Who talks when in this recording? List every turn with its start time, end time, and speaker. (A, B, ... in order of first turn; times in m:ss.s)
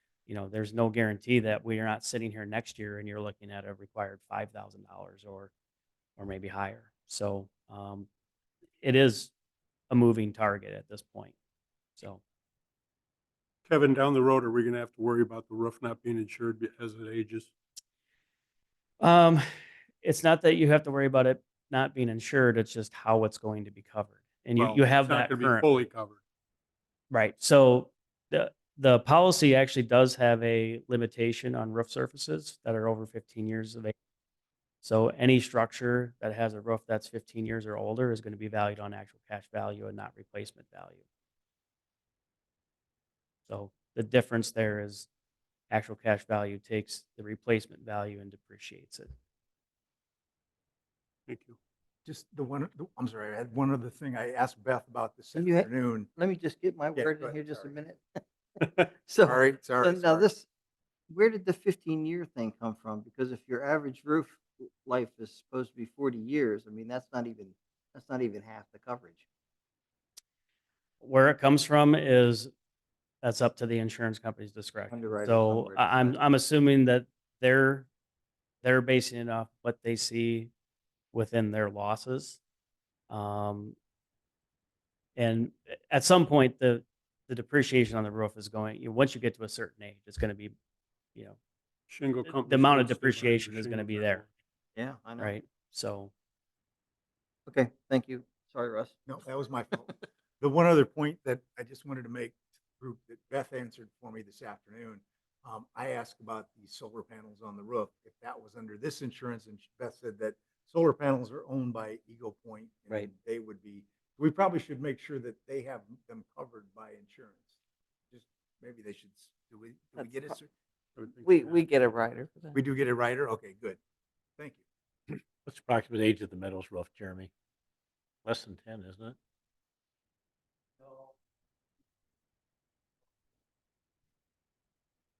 0:00.3-0:05.5 A
0:06.2-0:08.1 A
0:08.8-0:09.3 A
0:09.9-0:11.4 A
0:13.7-0:17.5 B
0:19.0-0:19.4 A
0:20.0-0:25.7 A
0:24.6-0:26.2 B
0:27.1-0:33.9 A
0:34.8-0:41.0 A
0:43.5-0:45.1 A
0:45.7-0:49.1 A
0:51.3-0:51.6 B
0:52.0-0:56.1 C
0:55.4-1:00.5 D
0:57.0-0:57.7 C
0:59.2-1:00.3 C
1:01.1-1:09.2 D
1:11.0-1:12.5 A
1:13.2-1:17.9 A
1:14.9-1:16.2 D
1:18.6-1:20.5 A
1:21.1-1:22.4 A
1:23.1-1:23.8 A
1:25.2-1:30.6 A
1:31.9-1:34.3 B
1:32.3-1:34.2 A
1:34.8-1:35.3 D
1:35.2-1:36.1 A
1:37.5-1:39.0 D
1:39.1-1:57.6 C
1:58.1-2:00.5 C
2:00.0-2:00.3 D
2:01.0-2:01.6 B
2:01.2-2:02.6 D
2:02.6-2:03.8 C
2:05.4-2:07.3 E
2:08.2-2:09.2 E